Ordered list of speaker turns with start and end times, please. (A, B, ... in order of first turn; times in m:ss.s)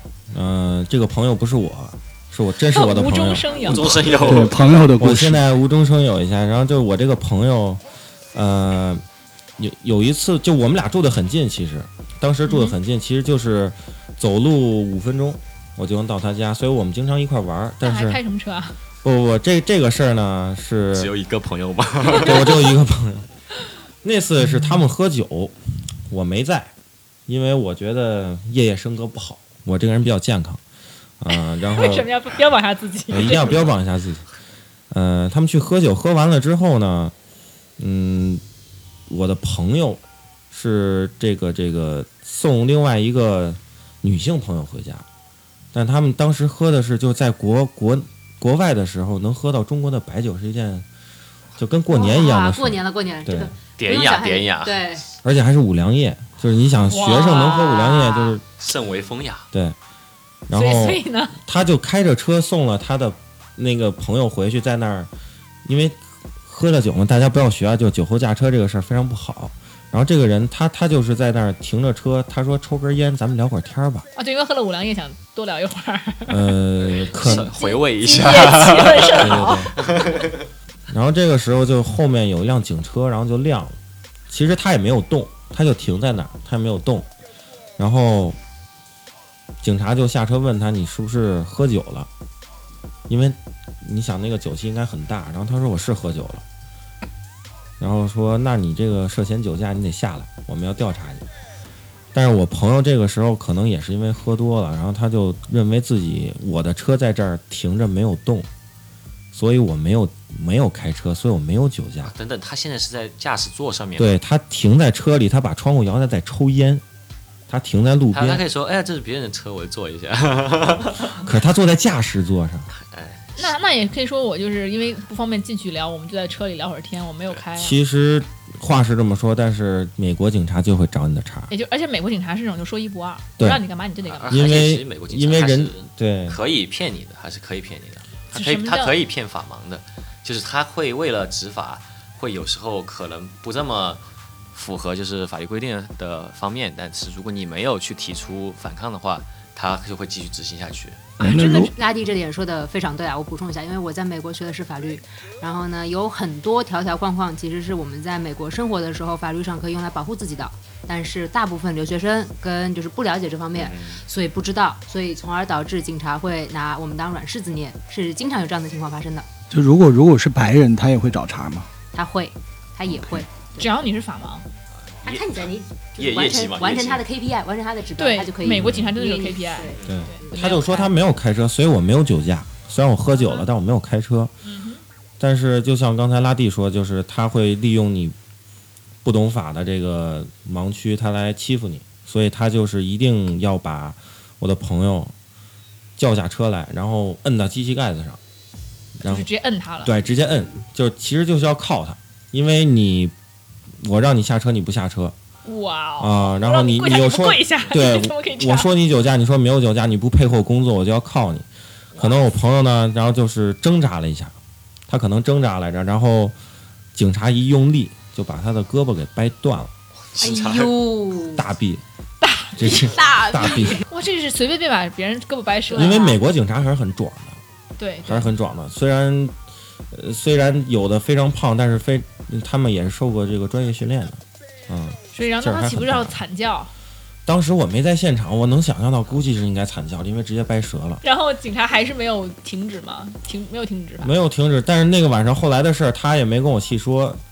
0:00.3-0:03.5 A
0:02.7-0:04.1 B
0:03.6-0:04.8 C
0:03.7-0:05.4 D
0:05.0-0:07.8 A
0:08.3-0:09.0 A
0:09.6-0:18.2 A
0:12.5-0:12.8 B
0:17.8-0:18.8 B
0:19.0-0:21.1 A
0:20.9-0:22.5 C
0:22.1-0:23.3 A
0:24.0-0:25.5 A
0:26.1-0:26.7 A
0:27.3-0:30.6 A
0:31.2-0:32.1 A
0:31.3-0:33.7 B
0:33.1-0:34.2 A
0:34.9-0:37.1 A
0:37.8-0:38.4 A
0:39.1-0:45.0 A
0:45.7-0:50.9 A
0:51.6-0:53.5 A
0:51.9-0:55.0 E
0:53.8-0:55.0 C
0:55.2-0:58.4 A
0:56.9-0:57.5 B
0:56.9-0:58.4 E
0:58.6-0:59.5 C
1:00.5-1:05.1 A
1:00.5-1:01.4 B
1:05.6-1:14.1 A
1:14.2-1:16.5 B
1:16.3-1:17.5 A
1:16.9-1:20.4 C
1:17.2-1:19.7 B
1:19.2-1:19.8 A
1:20.9-1:23.8 A
1:24.3-1:27.1 A
1:27.8-1:28.4 A
1:29.6-1:32.1 A
1:33.1-1:36.4 A
1:37.8-1:41.2 A
1:42.1-1:48.5 A
1:49.3-1:52.1 A
1:52.0-1:54.1 C
1:54.0-1:56.8 A
1:57.5-1:58.4 A
1:58.1-2:01.2 C
2:01.2-2:02.7 A
2:02.8-2:03.4 C
2:03.4-2:07.8 B
2:07.6-2:11.5 A
2:11.5-2:14.5 B
2:14.1-2:24.0 C
2:14.3-2:16.4 A
2:18.3-2:19.0 B
2:24.5-2:31.2 C
2:31.2-2:31.7 D
2:31.2-2:31.6 B
2:31.2-2:49.3 E
2:43.6-2:44.0 C
2:49.5-2:51.7 D
2:51.9-2:53.7 E
2:53.6-2:54.5 B
2:54.9-2:57.0 C
2:55.0-3:00.9 E
2:58.0-3:00.6 B
2:58.6-2:58.9 A
2:59.8-3:04.3 A
3:04.4-3:04.8 B
3:05.2-3:08.1 A
3:09.0-3:15.1 A
3:16.0-3:18.2 A
3:19.0-3:19.3 A
3:19.0-3:19.9 B
3:19.8-3:23.1 A
3:23.8-3:25.1 A
3:25.4-3:28.7 B
3:26.0-3:34.3 A
3:34.9-3:36.4 A
3:36.9-3:39.7 A
3:40.0-3:40.9 C
3:40.2-3:41.4 E
3:41.4-3:41.8 A
3:42.2-3:42.9 B
3:42.6-3:43.8 A
3:42.8-3:43.8 E
3:43.8-3:46.1 B
3:45.7-3:46.2 E
3:45.7-3:47.4 A
3:47.8-3:48.3 B
3:48.0-3:49.4 A
3:49.9-3:56.2 A
3:55.1-3:56.7 B
3:57.2-4:01.0 A
4:01.0-4:04.1 B
4:04.0-4:07.2 A